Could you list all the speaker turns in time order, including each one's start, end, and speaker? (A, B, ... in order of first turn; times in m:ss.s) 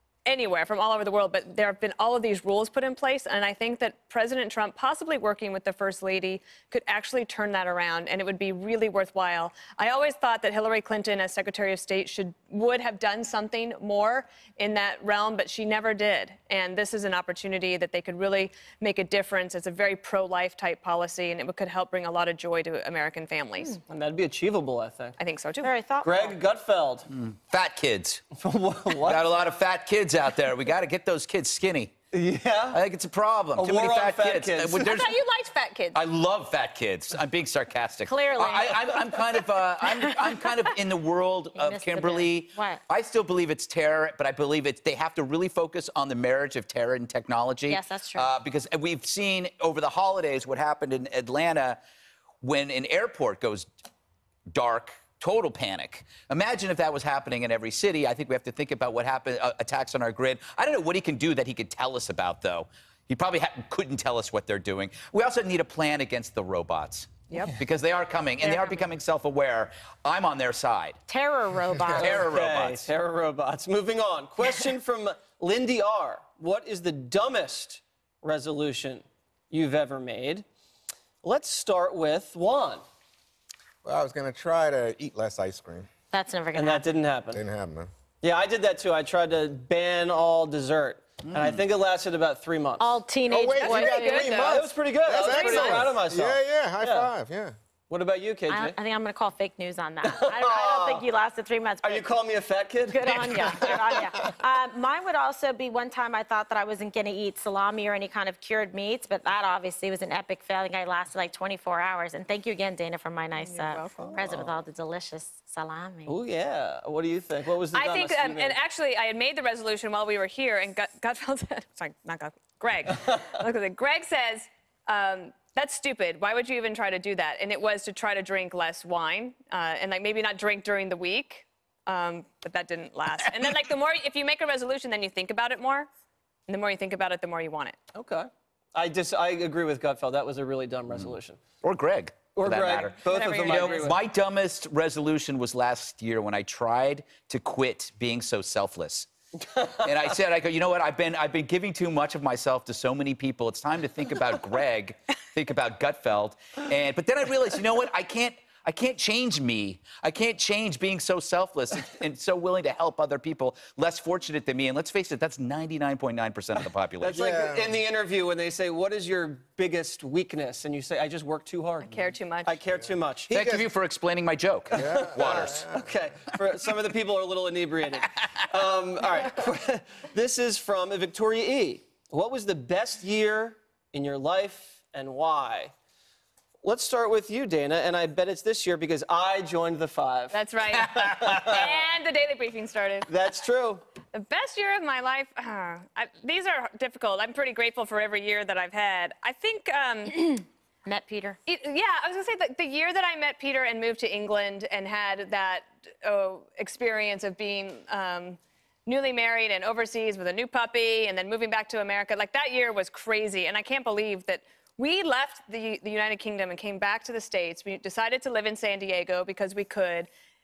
0:00.2-0:23.8 A
0:23.9-0:25.2 B
0:25.2-0:25.7 A
0:25.6-0:26.4 C
0:26.0-0:27.1 B
0:27.1-0:28.2 D
0:28.4-0:29.2 B
0:29.0-0:31.9 D
0:32.1-0:32.8 B
0:32.7-0:35.2 D
0:33.6-0:34.9 B
0:34.8-0:36.0 A
0:35.9-0:51.8 D
0:38.0-0:39.1 C
0:41.5-0:42.8 C
0:47.7-0:48.3 C
0:52.4-0:53.7 D
0:54.5-1:11.0 D
1:07.3-1:07.6 A
1:08.4-1:08.8 A
1:11.1-1:12.2 C
1:12.0-1:20.4 B
1:12.0-1:12.9 D
1:21.2-1:22.8 B
1:23.8-1:25.9 E
1:26.1-1:26.8 C
1:26.5-1:27.4 B
1:27.3-1:27.9 E
1:28.2-1:33.0 B
1:31.2-1:31.6 D
1:32.8-1:34.5 C
1:33.3-1:37.5 E
1:33.6-1:34.7 A
1:34.4-1:37.1 B
1:35.2-1:35.8 C
1:35.4-1:35.9 A
1:37.9-1:38.8 B
1:38.5-1:42.1 C
1:40.0-1:41.0 B
1:41.8-1:44.3 B
1:42.9-1:56.1 C
1:53.4-1:54.2 A
1:54.0-1:54.5 B
1:56.0-1:58.6 B
1:57.7-2:15.9 A
2:16.5-2:17.8 A
2:17.9-2:21.4 B
2:21.6-2:29.1 D
2:22.3-2:24.0 B
2:23.0-2:23.9 A
2:29.4-2:30.0 B
2:29.8-2:47.2 D
2:47.0-2:53.3 B
2:47.1-2:47.7 E
2:51.9-2:52.5 A
2:53.3-2:53.6 E
2:53.3-2:55.7 D
2:54.7-3:05.7 B
2:54.7-2:55.8 E
3:06.6-3:10.4 B
3:10.3-3:13.1 A
3:10.8-3:11.6 D
3:10.9-3:11.8 B
3:13.1-3:13.8 B
3:14.1-3:20.4 A
3:20.8-3:21.4 C
3:21.5-3:40.1 A